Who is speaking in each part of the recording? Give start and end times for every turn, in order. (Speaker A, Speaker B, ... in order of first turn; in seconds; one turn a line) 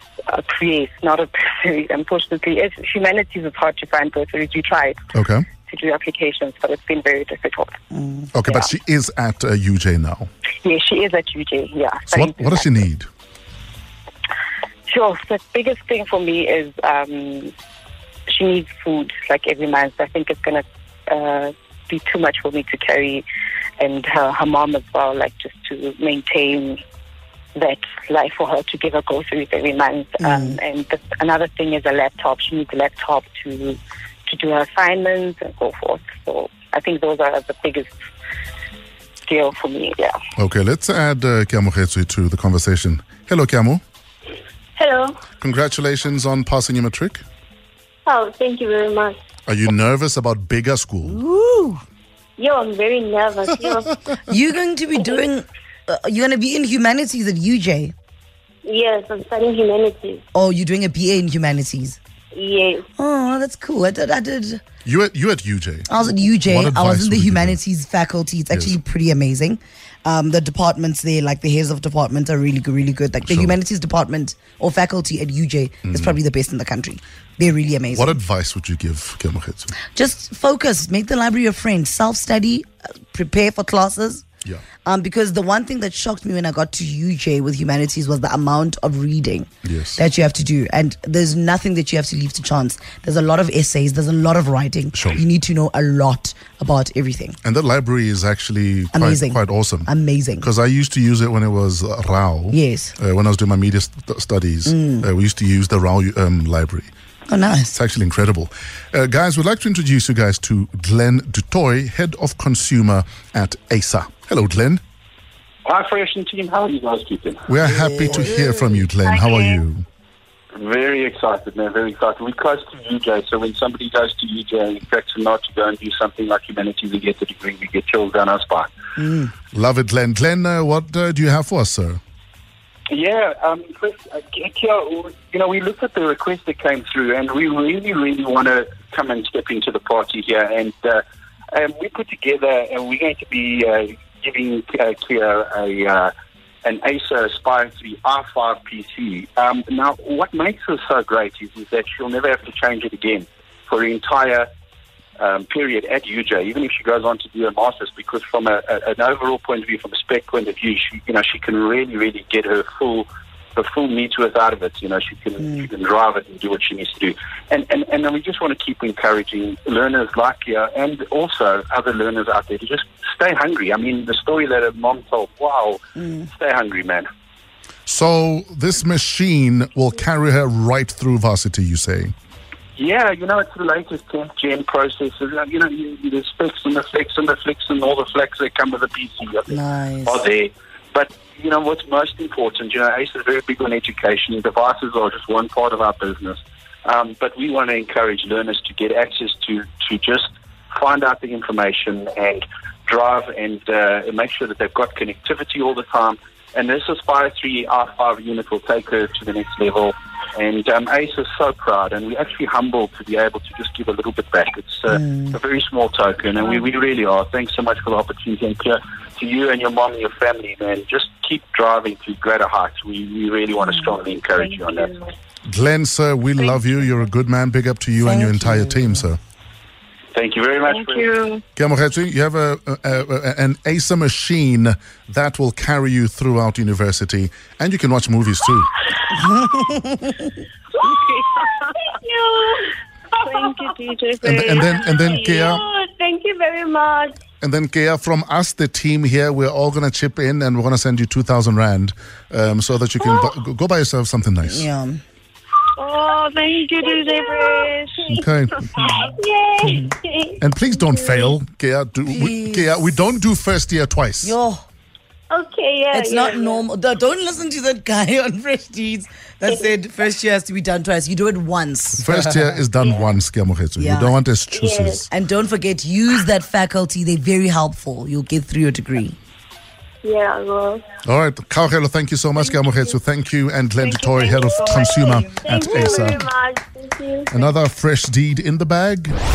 Speaker A: 0.3-7.8
Speaker B: 5.1-5.4
Speaker C: 7.9-8.3
Speaker B: 8.3-10.3
Speaker A: 10.6-12.9
Speaker B: 12.1-13.1
Speaker A: 14.9-17.5
Speaker A: 18.3-23.2
Speaker A: 23.8-26.8
Speaker A: 27.5-37.9
Speaker C: 30.2-30.6
Speaker A: 39.3-40.1
Speaker B: 40.4-43.8
Speaker D: 44.8-45.2
Speaker B: 45.4-47.2
Speaker D: 48.0-49.2
Speaker B: 49.5-51.2
Speaker C: 51.0-51.8
Speaker D: 52.4-54.0
Speaker C: 54.3-57.9
Speaker D: 58.6-60.2
Speaker C: 60.3-62.0
Speaker D: 62.3-62.9
Speaker C: 63.0-64.6
Speaker B: 64.8-65.9
Speaker C: 65.9-78.2
Speaker B: 66.5-67.6
Speaker B: 68.5-68.8
Speaker B: 73.2-73.6
Speaker B: 75.8-76.2
Speaker B: 77.9-79.7
Speaker C: 79.9-84.2
Speaker C: 84.8-97.3
Speaker B: 89.6-90.0
Speaker B: 94.9-95.2
Speaker B: 97.4-99.9
Speaker C: 98.9-100.5
Speaker B: 100.4-106.9
Speaker C: 102.5-102.9
Speaker C: 104.7-105.1
Speaker C: 107.3-107.7
Speaker B: 107.7-114.8
Speaker E: 115.6-117.4
Speaker B: 117.5-119.8
Speaker C: 117.6-118.9
Speaker E: 120.5-128.7
Speaker C: 129.0-129.3
Speaker B: 129.5-132.0
Speaker E: 132.9-146.1
Speaker E: 146.6-154.5
Speaker E: 155.2-177.1
Speaker C: 175.9-176.3
Speaker B: 177.9-182.1
Speaker E: 182.8-224.9
Speaker C: 189.5-190.2
Speaker C: 214.9-215.3
Speaker B: 225.5-229.2
Speaker C: 228.0-229.1
Speaker E: 230.1-231.1
Speaker A: 230.7-231.4
Speaker B: 231.5-238.7
Speaker C: 239.2-240.2
Speaker D: 241.1-242.7
Speaker D: 243.2-247.2
Speaker A: 243.2-244.6
Speaker B: 244.2-245.7
Speaker B: 247.4-254.7
Speaker C: 254.4-255.0
Speaker D: 255.8-261.3
Speaker B: 258.0-259.1
Speaker B: 260.4-264.4
Speaker C: 262.1-263.0
Speaker C: 264.2-264.6
Speaker D: 265.3-266.6
Speaker C: 265.9-272.6
Speaker B: 271.9-275.1
Speaker C: 273.8-274.2
Speaker D: 274.5-275.0
Speaker C: 275.1-279.1
Speaker D: 280.0-280.8
Speaker B: 281.0-286.3
Speaker D: 282.5-282.9
Speaker A: 283.9-285.3
Speaker D: 284.7-287.5
Speaker B: 287.3-289.1